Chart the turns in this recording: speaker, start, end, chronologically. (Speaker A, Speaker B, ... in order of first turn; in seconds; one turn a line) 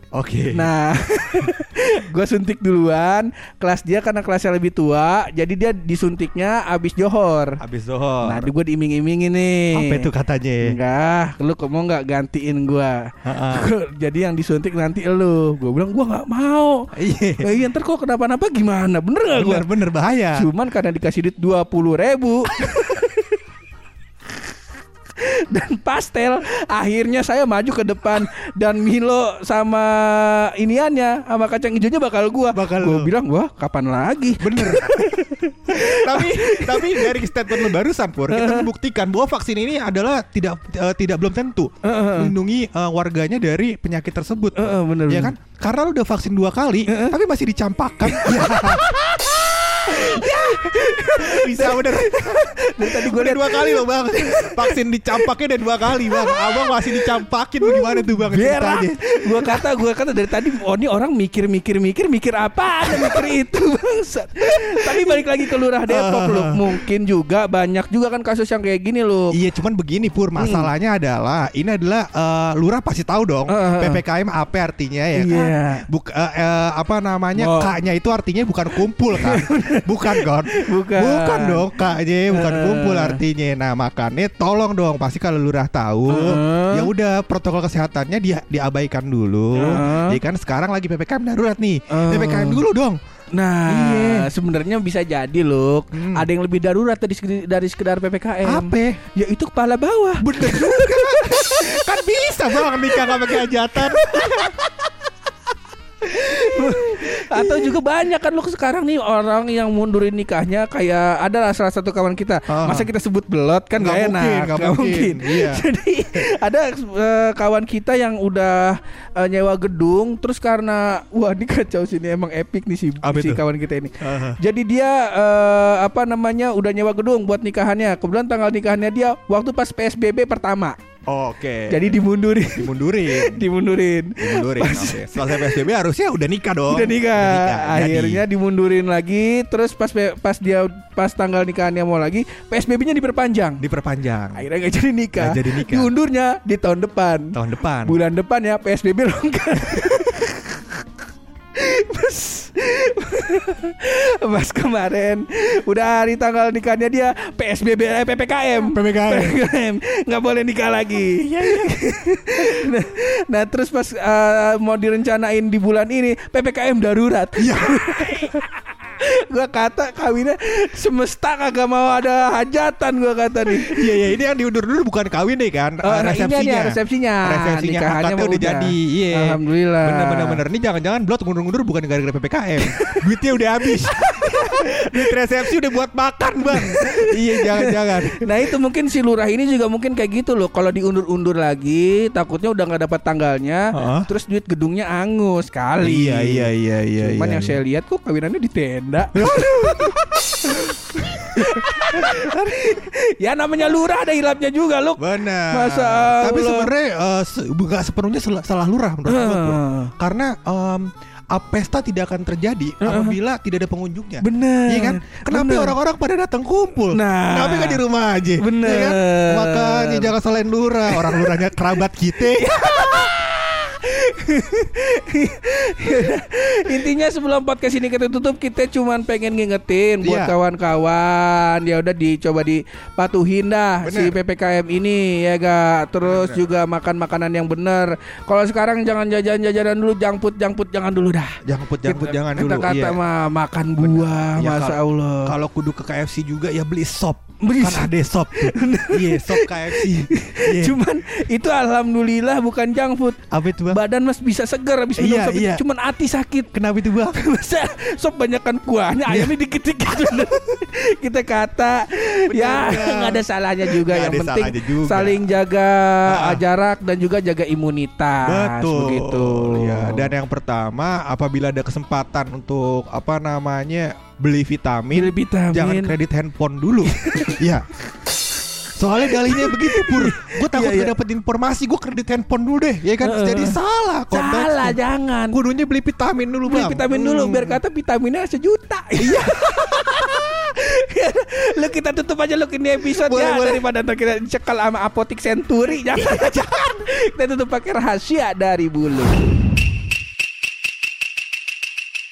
Speaker A: 0.1-0.7
Speaker B: 0.5-7.6
Speaker A: 7.6-8.5
Speaker B: 8.2-10.1
Speaker A: 9.7-10.8
Speaker B: 10.6-16.9
Speaker A: 13.2-13.7
Speaker A: 16.9-17.5
Speaker B: 17.4-19.7
Speaker A: 19.3-20.5
Speaker B: 20.3-23.4
Speaker B: 25.2-37.8
Speaker A: 32.5-33.1
Speaker A: 34.4-49.2
Speaker B: 38.3-38.7
Speaker B: 41.8-42.3
Speaker B: 44.5-45.3
Speaker B: 46.9-47.1
Speaker B: 48.0-49.0
Speaker B: 49.7-55.3
Speaker A: 49.8-59.8
Speaker B: 55.8-69.3
Speaker A: 62.8-63.4
Speaker A: 64.4-65.3
Speaker A: 65.9-66.8
Speaker A: 69.3-93.0
Speaker B: 70.4-70.7
Speaker B: 73.5-74.0
Speaker B: 75.1-75.8
Speaker B: 77.3-77.7
Speaker B: 79.1-81.8
Speaker B: 82.3-83.2
Speaker B: 86.1-86.9
Speaker B: 89.5-90.2
Speaker B: 91.9-92.6
Speaker B: 93.3-101.8
Speaker A: 93.7-94.3
Speaker A: 95.9-96.3
Speaker A: 98.4-99.0
Speaker A: 100.2-104.8
Speaker B: 102.5-104.6
Speaker B: 106.0-130.7
Speaker A: 106.3-107.8
Speaker A: 112.5-112.9
Speaker A: 113.8-115.6
Speaker A: 123.0-123.4
Speaker A: 124.0-124.4
Speaker A: 131.1-132.0
Speaker B: 131.7-135.6
Speaker A: 132.6-133.4
Speaker A: 134.2-138.2
Speaker B: 136.7-143.6
Speaker A: 143.6-144.4
Speaker B: 144.3-150.8
Speaker A: 145.2-145.9
Speaker A: 147.3-148.0
Speaker B: 151.5-174.0
Speaker A: 158.7-159.4
Speaker A: 161.2-161.8
Speaker A: 167.4-168.3
Speaker A: 173.6-188.3
Speaker B: 175.8-180.4
Speaker B: 182.6-183.0
Speaker B: 183.8-185.2
Speaker B: 186.5-206.7
Speaker A: 193.7-194.1
Speaker A: 195.8-197.6
Speaker A: 199.1-200.0
Speaker A: 201.3-202.6
Speaker A: 205.0-223.0
Speaker B: 209.1-209.9
Speaker B: 212.8-213.2
Speaker B: 214.2-215.7
Speaker B: 216.9-217.8
Speaker B: 218.4-220.1
Speaker B: 220.9-221.6
Speaker B: 222.2-245.3
Speaker A: 230.0-230.3
Speaker A: 233.8-234.2
Speaker A: 236.0-236.5
Speaker A: 241.4-243.0
Speaker A: 243.8-250.8
Speaker B: 247.4-256.5
Speaker A: 253.3-253.8
Speaker A: 255.0-255.6
Speaker A: 256.5-257.2
Speaker B: 257.1-270.1
Speaker A: 259.1-259.3
Speaker A: 262.3-265.2
Speaker A: 266.1-266.4
Speaker A: 268.2-277.6
Speaker B: 274.9-275.9
Speaker B: 276.9-277.4
Speaker A: 278.8-284.8
Speaker B: 279.1-280.9
Speaker B: 283.0-283.6
Speaker B: 284.1-285.4
Speaker A: 285.3-287.6
Speaker B: 286.5-299.2
Speaker A: 289.0-290.3
Speaker A: 292.8-293.6
Speaker A: 296.0-296.7